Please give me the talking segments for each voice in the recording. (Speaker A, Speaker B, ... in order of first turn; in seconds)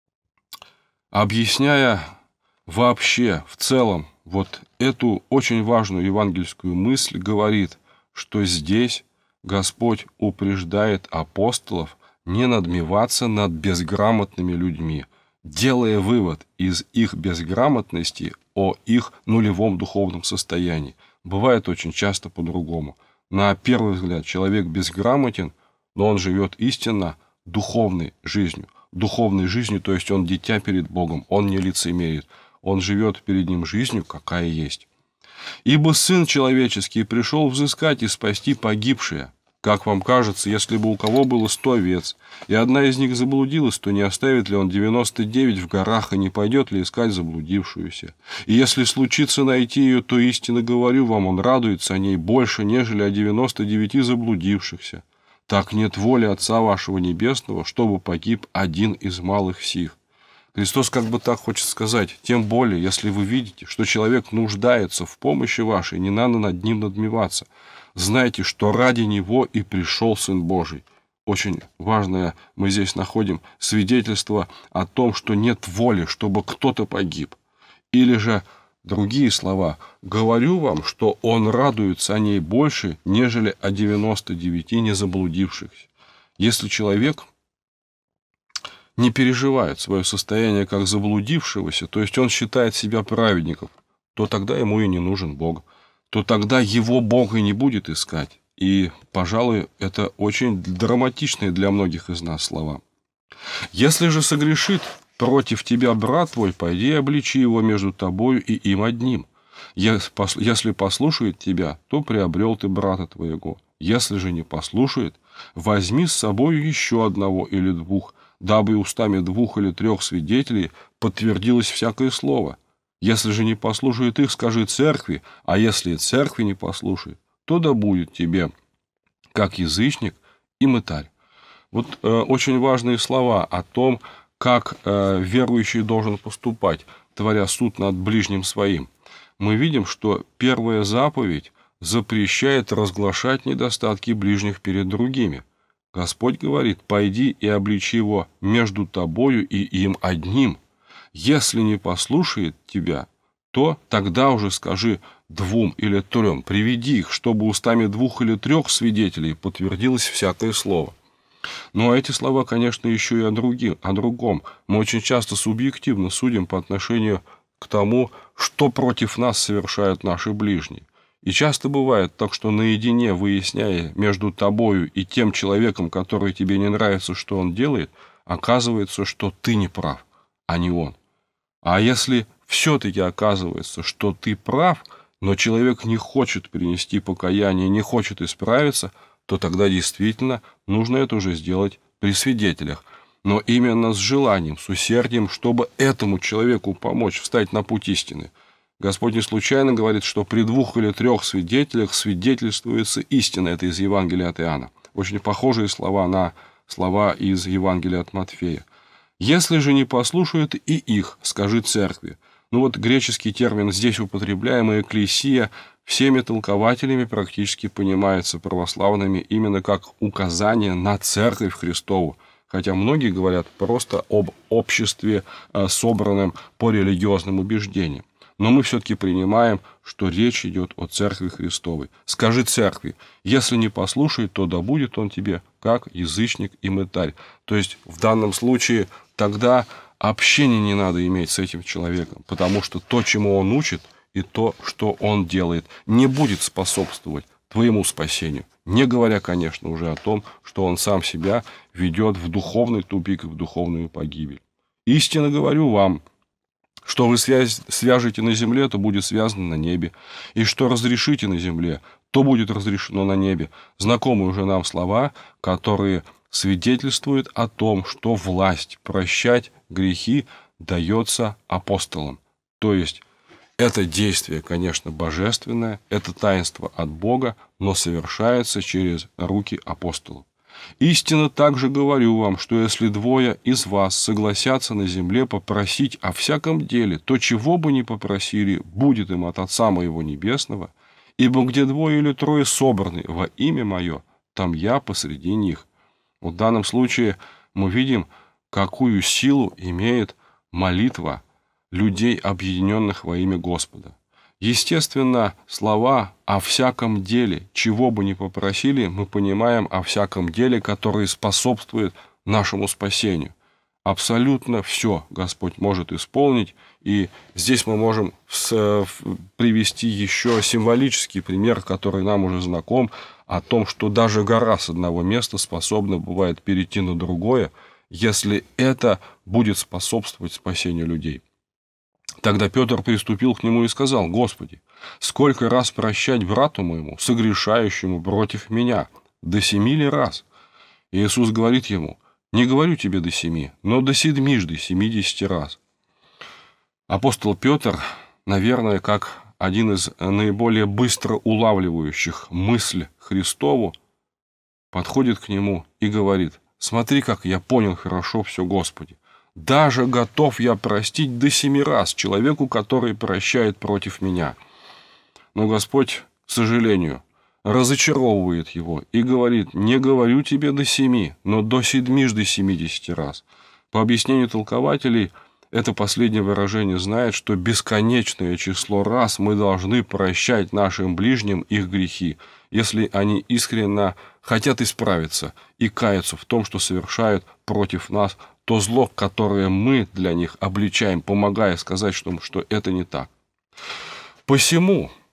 Speaker A: 1.1-2.1, 2.6-34.9, 35.6-60.0, 60.5-77.4, 77.9-87.3, 89.0-102.8, 103.7-128.5, 129.3-131.1, 131.7-150.6, 151.1-160.9, 161.7-181.0, 181.6-208.7, 209.2-256.0, 256.8-273.0, 273.6-280.3, 280.8-295.7, 296.2-331.2, 332.2-340.2, 340.9-345.6, 346.9-353.8, 354.7-364.4, 365.3-393.1, 394.2-394.9